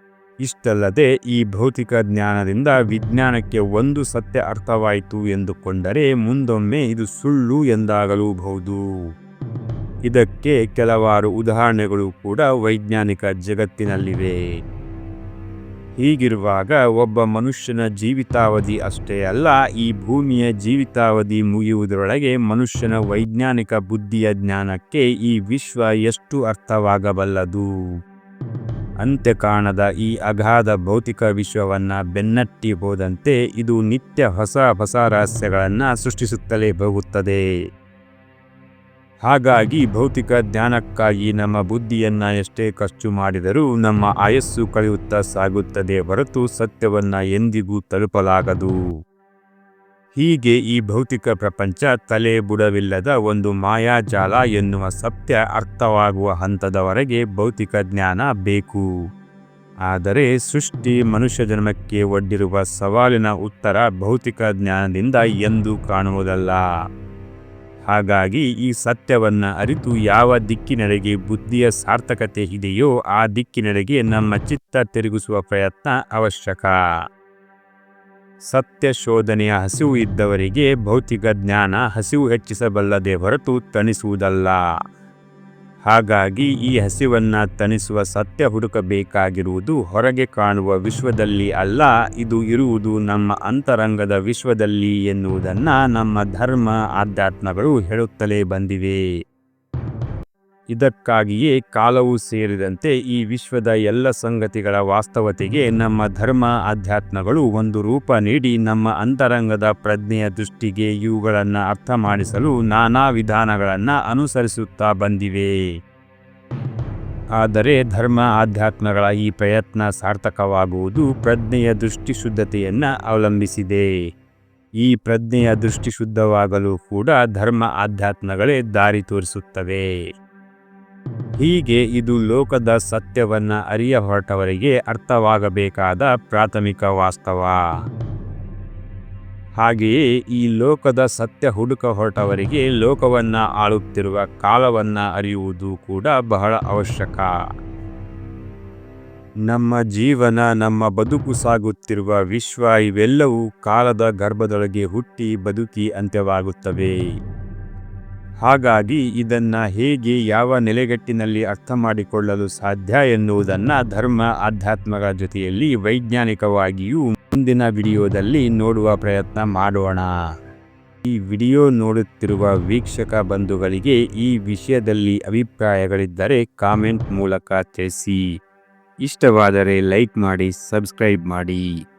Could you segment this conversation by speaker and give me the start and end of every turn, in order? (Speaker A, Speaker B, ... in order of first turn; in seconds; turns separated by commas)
Speaker A: 0.4-8.8, Speaker A: 10.1-14.3, Speaker A: 16.0-27.6, Speaker A: 29.0-37.4, Speaker A: 39.2-48.7, Speaker A: 50.1-58.8, Speaker A: 59.9-66.6, Speaker A: 67.9-76.7, Speaker A: 78.5-84.6, Speaker A: 85.9-99.0, Speaker A: 100.7-115.5, Speaker A: 117.4-123.9, Speaker A: 124.8-129.8, Speaker A: 131.4-137.6, Speaker A: 139.6-147.3, Speaker A: 149.5-156.9, Speaker A: 158.4-170.1, Speaker A: 171.0-178.2, Speaker A: 179.0-181.6